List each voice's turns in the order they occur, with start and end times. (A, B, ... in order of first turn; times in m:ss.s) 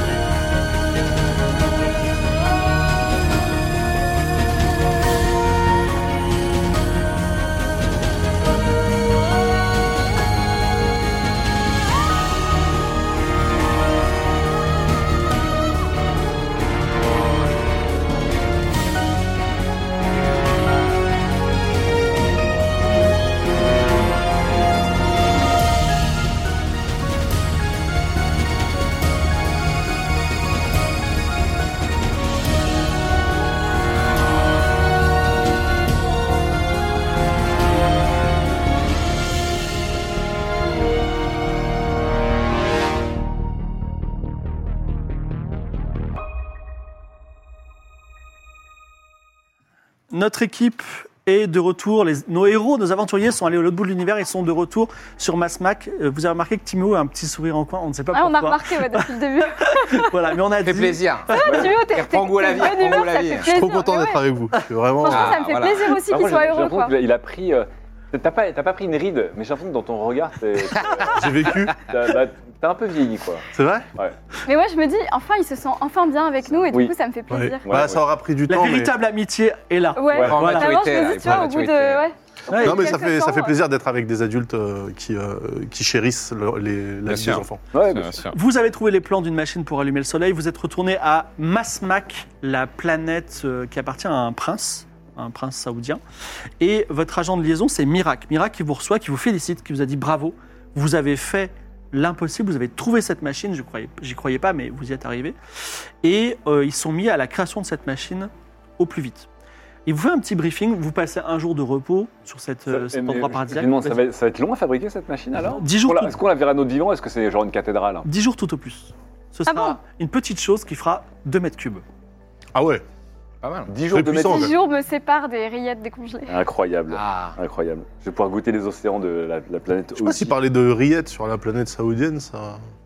0:50.1-1:01.5 A
0:58.1-1:00.1 B
1:00.6-1:03.5 C
1:01.3-1:04.2 B
1:01.4-1:01.8 D
1:03.5-1:05.4 E
1:05.0-1:06.9 B
1:05.0-1:06.0 C
1:06.0-1:14.2 D
1:10.8-1:11.1 C
1:11.1-1:11.8 E
1:13.5-1:13.9 E
1:14.5-1:17.6 B
1:16.6-1:17.0 D
1:17.3-1:18.9 E
1:17.6-1:18.0 D
1:18.5-1:20.7 A
1:20.0-1:23.5 B
1:20.1-1:20.5 D
1:20.1-1:22.0 C
1:21.2-1:21.5 E
1:22.5-1:23.0 A
1:22.6-1:27.6 E
1:27.0-1:28.3 C
1:27.7-1:28.3 D
1:28.3-1:36.0 A
1:36.6-1:45.4 A
1:46.0-1:49.3 A
1:49.9-1:54.0 A
1:52.7-1:58.1 D
1:55.5-1:56.2 A
1:58.0-2:01.8 A
1:59.5-1:59.8 B
2:02.5-2:02.8 E
2:03.4-2:03.7 C
2:03.7-2:04.5 D
2:03.9-2:04.6 E
2:04.2-2:06.4 B
2:06.3-2:10.4 D
2:06.9-2:07.4 C
2:10.0-2:12.6 E